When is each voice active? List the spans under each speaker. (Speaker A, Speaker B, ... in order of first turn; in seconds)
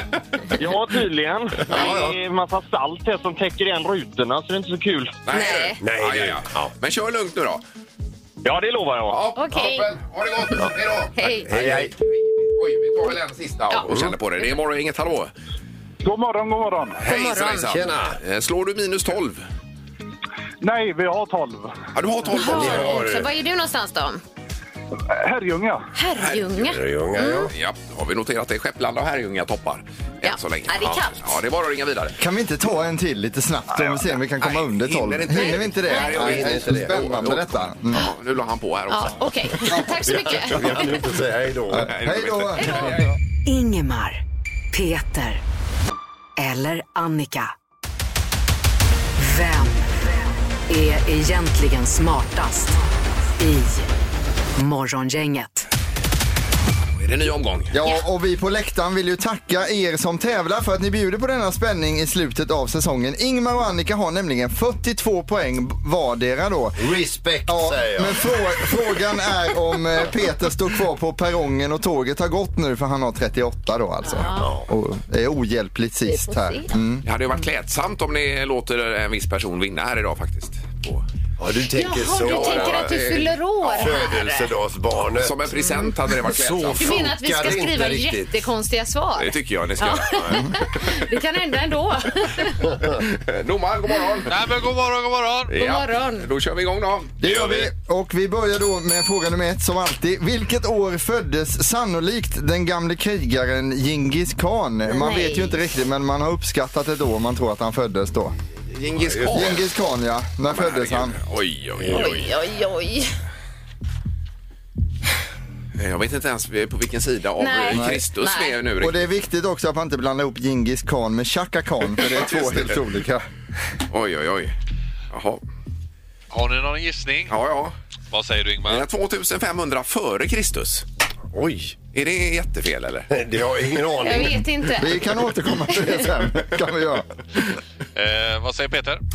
Speaker A: 0.6-5.2, 8.4-9.3
Speaker B: 1.7-2.2, 5.8-6.7, 11.5-11.9, 17.7-18.2, 22.4-23.3, 26.6-27.5, 36.0-36.9, 40.0-41.9, 66.8-68.4, 74.3-74.7, 81.4-88.4, 90.0-90.5, 108.9-109.6, 111.8-112.2, 131.3-131.8, 133.1-134.5
Speaker C: 5.3-7.6, 9.1-15.3, 17.0-19.4, 21.9-22.9, 26.2-26.5, 27.5-32.2, 34.4-39.3, 40.6-40.8, 41.8-43.1, 57.0-57.8, 77.0-81.0, 82.2-84.1, 85.2-87.1, 89.2-90.4, 93.0-94.3, 95.5-97.7, 108.7-109.7, 110.5-112.3, 115.8-119.0, 122.0-122.8, 123.9-124.5, 125.1-125.4, 127.3-127.7, 128.7-130.8, 131.9-133.1
Speaker D: 5.3-5.8, 9.4-9.9, 11.2-11.5, 17.1-17.8, 22.3-24.2, 25.9-27.5, 30.2-31.3, 35.3-36.2, 38.9-41.0, 42.6-42.9, 74.0-74.5, 76.1-76.7, 81.7-84.5, 85.5-86.0, 86.8-92.7, 95.5-96.3, 104.9-105.6, 111.9-113.2, 117.4-118.6, 134.0-135.0
Speaker E: 16.1-17.0, 20.6-21.7, 25.2-25.8
Speaker F: 32.2-38.1, 41.7-43.1, 57.7-66.9, 67.5-77.0, 97.2-108.3, 109.3-111.2, 117.7-118.0, 118.8-123.3, 134.8-137.1
Speaker G: 43.5-44.2, 44.7-45.4, 46.4-47.5, 49.2-50.1, 50.7-52.8, 53.4-53.9, 54.6-55.7
Speaker H: 94.3-95.5, 126.3-127.4, 128.1-128.9, 137.9-139.0